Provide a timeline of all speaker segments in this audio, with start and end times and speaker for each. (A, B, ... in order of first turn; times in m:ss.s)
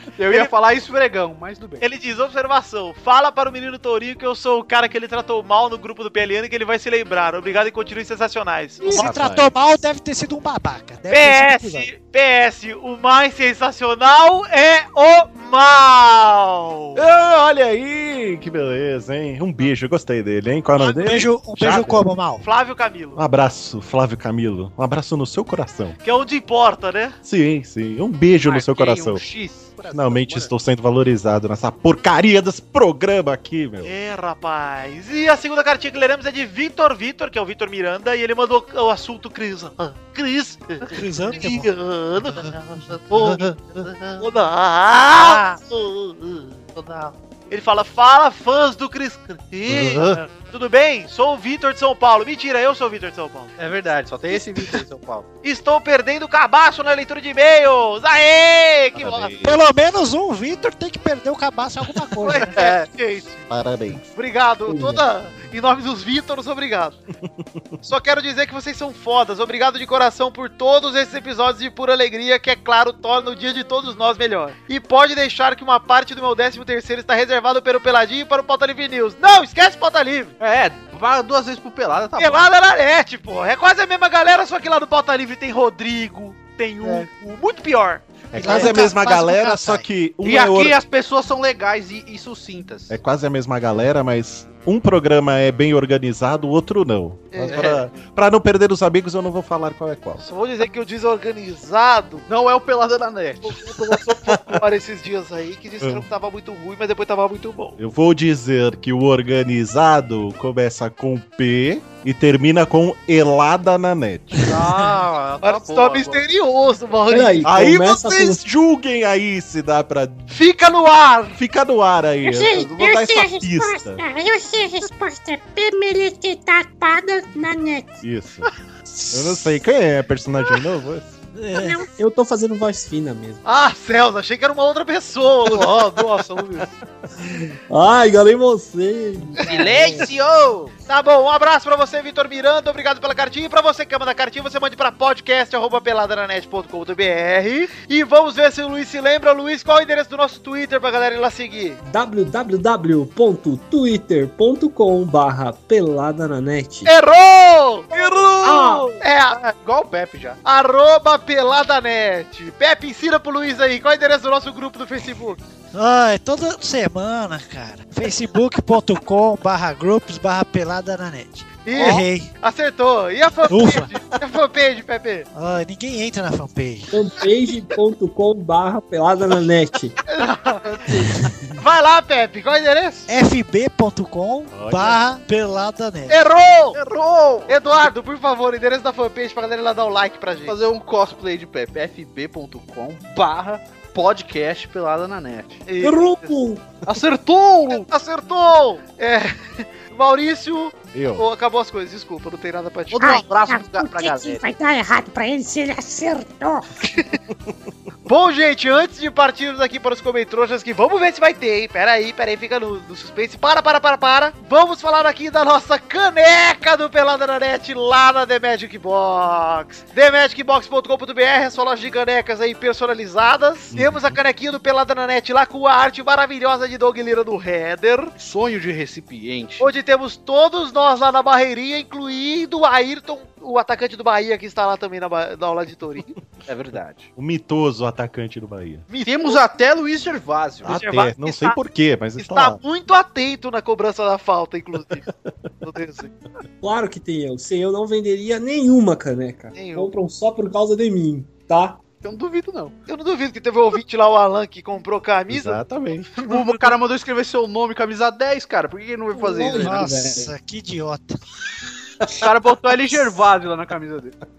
0:00.2-0:01.8 A
0:01.8-0:09.1 B
0:08.8-0:11.9 C
0:09.0-0:09.5 D
0:11.1-0:17.0 B
0:17.0-0:22.0 D
0:20.8-0:21.7 B
0:21.0-0:22.4 C
0:22.4-0:23.2 B
0:23.2-0:26.0 D
0:26.0-0:27.2 B
0:27.2-0:29.2 D
0:28.4-0:29.8 A
0:29.9-0:33.9 D
0:33.8-0:43.5 B
0:40.9-0:41.7 C
0:43.9-0:44.2 A
0:44.2-0:46.5 B
0:46.8-0:47.1 A
0:47.5-0:53.5 B
0:49.7-0:50.2 D
0:53.6-0:55.2 A
0:54.3-0:54.7 B
0:55.4-0:59.3 B
0:58.9-0:59.6 D
0:59.4-1:02.6 C
1:02.2-1:03.5 B
1:02.5-1:02.8 A
1:03.5-1:04.0 D
1:04.1-1:07.0 B
1:04.7-1:05.0 E
1:07.8-1:20.3 B
1:20.4-1:22.4 A
1:22.2-1:28.7 B
1:28.3-1:30.8 D
1:28.4-1:29.8 C
1:30.2-1:33.0 A
1:32.9-1:40.2 D
1:37.3-1:37.8 B
1:37.5-1:37.8 A
1:40.2-1:42.3 B
1:42.3-1:43.6 A
1:43.4-1:47.8 B
1:47.8-1:54.5 D
1:54.5-1:56.2 A
1:55.4-1:57.5 B
1:57.1-1:58.4 E
1:57.4-2:00.3 D
2:00.3-2:01.4 B
2:01.4-2:04.0 D
2:02.2-2:08.0 F
2:08.0-2:08.5 D
2:09.1-2:11.2 D
2:11.4-2:11.7 C
2:11.5-2:11.8 F
2:11.9-2:13.4 E
2:13.4-2:16.7 B
2:17.7-2:20.1 E
2:19.4-2:20.7 A
2:20.9-2:31.8 B
2:31.8-2:36.9 E
2:36.8-2:39.4 B
2:38.4-2:38.9 E
2:39.3-2:40.4 A
2:40.4-2:45.4 B
2:45.7-2:52.3 C
2:51.6-2:55.3 B
2:53.5-2:53.9 C
2:55.3-2:56.9 C
2:56.9-2:59.9 E
3:00.1-3:00.9 B
3:00.6-3:01.1 A
3:01.5-3:03.1 B
3:03.1-3:06.2 C
3:04.5-3:05.0 D
3:06.1-3:06.8 B
3:06.7-3:07.5 A
3:07.5-3:10.6 B
3:10.5-3:15.6 A
3:15.7-3:16.3 B
3:15.8-3:16.6 E
3:16.8-3:17.9 A
3:17.7-3:23.2 B
3:20.9-3:21.2 D
3:22.9-3:24.4 A
3:23.0-3:26.6 F
3:26.8-3:27.1 B
3:28.1-3:48.1 B
3:43.7-3:44.1 D
3:48.2-3:49.7 A
3:49.6-3:56.1 B
3:56.5-3:57.1 A
3:57.2-3:58.8 D
3:58.9-3:59.4 B
3:59.0-4:00.8 A
4:00.6-4:02.6 D
4:00.6-4:01.6 B
4:02.2-4:05.1 B
4:05.6-4:06.1 B
4:06.6-4:11.8 E
4:09.5-4:09.9 B
4:12.0-4:12.7 A
4:12.9-4:15.6 B
4:15.3-4:16.1 D
4:16.1-4:16.7 B
4:16.3-4:19.8 A
4:19.1-4:20.3 E
4:19.5-4:21.2 C
4:22.2-4:24.1 A